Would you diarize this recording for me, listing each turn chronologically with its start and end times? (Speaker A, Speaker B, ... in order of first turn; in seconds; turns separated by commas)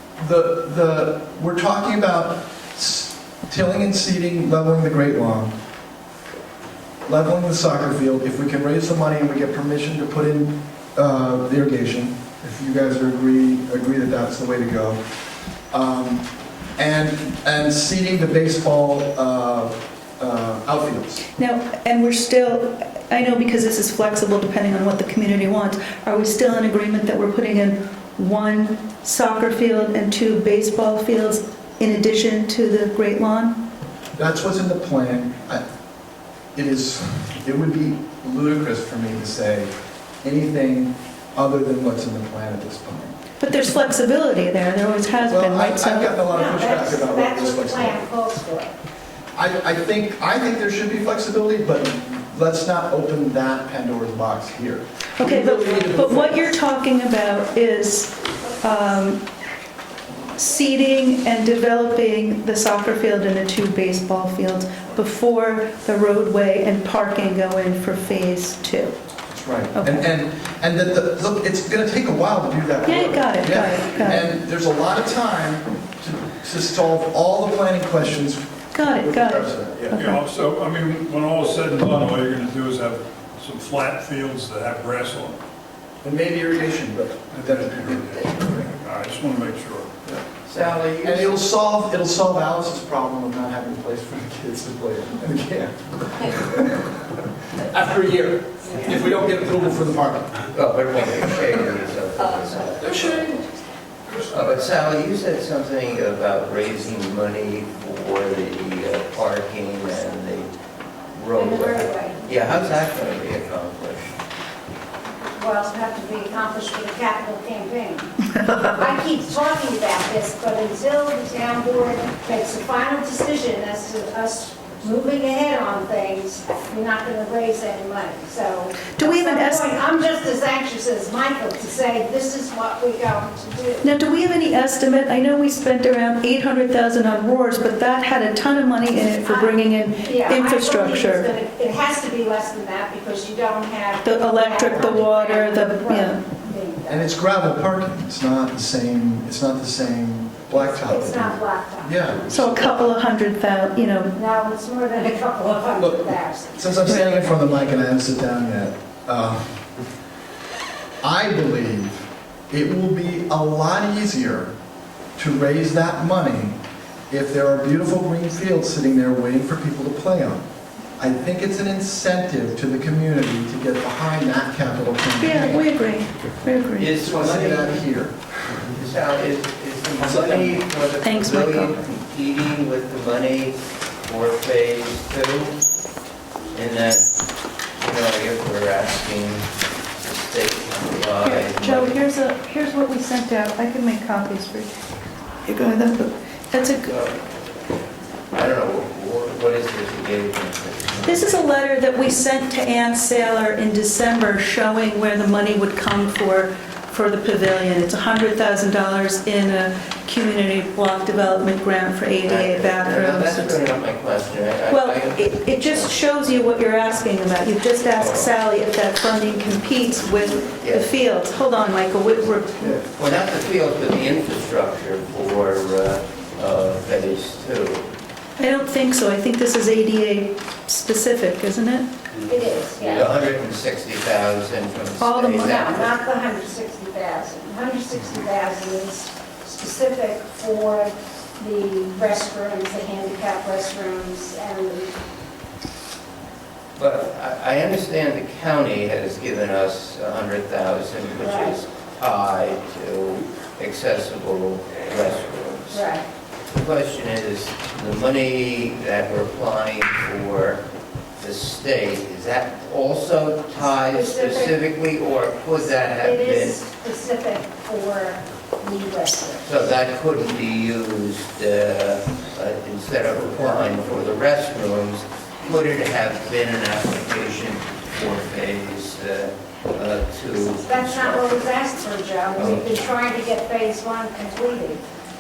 Speaker A: 0.2-5.5, Speaker A: 7.0-15.0, Speaker A: 15.7-21.3, Speaker B: 21.4-33.6, Speaker A: 34.2-35.6, Speaker A: 36.5-39.7, Speaker A: 40.2-43.2, Speaker B: 43.4-46.2, Speaker A: 45.3-48.0, Speaker C: 46.2-48.7, Speaker A: 49.4-56.6, Speaker B: 55.2-59.2, Speaker B: 60.4-69.0, Speaker A: 69.3-80.1, Speaker B: 69.7-70.1, Speaker B: 72.8-74.3, Speaker B: 78.7-80.2, Speaker D: 79.9-85.4, Speaker A: 86.0-88.7, Speaker D: 87.3-90.0, Speaker E: 90.5-91.4, Speaker A: 91.0-97.0, Speaker A: 97.6-100.5, Speaker E: 100.5-103.4, Speaker A: 102.8-103.4, Speaker E: 104.2-110.5, Speaker E: 111.1-114.2, Speaker C: 111.3-112.3, Speaker C: 115.2-133.9, Speaker B: 129.0-129.7, Speaker B: 133.8-141.3, Speaker C: 139.2-147.1, Speaker B: 144.0-146.2, Speaker A: 146.9-152.9, Speaker C: 150.5-152.3, Speaker B: 152.3-154.1, Speaker C: 154.1-156.9, Speaker A: 155.8-159.6, Speaker B: 156.9-157.3, Speaker A: 161.0-164.5, Speaker A: 165.2-170.4, Speaker A: 171.0-175.7, Speaker B: 175.2-176.9, Speaker E: 176.8-177.8, Speaker A: 176.9-178.2, Speaker E: 178.7-185.6, Speaker A: 180.0-180.6, Speaker B: 181.0-181.8, Speaker E: 186.5-187.1, Speaker E: 187.8-192.0, Speaker B: 191.2-194.7, Speaker B: 195.5-196.9, Speaker E: 196.8-197.2, Speaker E: 198.3-201.5, Speaker B: 201.1-213.6, Speaker E: 212.2-216.0, Speaker B: 214.7-222.8, Speaker E: 217.9-218.3, Speaker E: 220.6-221.0, Speaker A: 222.6-222.9, Speaker E: 222.9-227.9, Speaker B: 228.4-231.9, Speaker C: 232.3-233.1, Speaker E: 232.8-236.0, Speaker B: 235.0-235.6, Speaker C: 235.5-244.9, Speaker E: 246.8-255.9, Speaker C: 251.2-251.6, Speaker C: 255.7-256.1, Speaker E: 256.5-260.6, Speaker E: 261.2-266.6, Speaker C: 263.6-264.6, Speaker C: 265.8-269.5, Speaker E: 269.4-281.4, Speaker C: 280.5-284.8, Speaker E: 282.4-282.7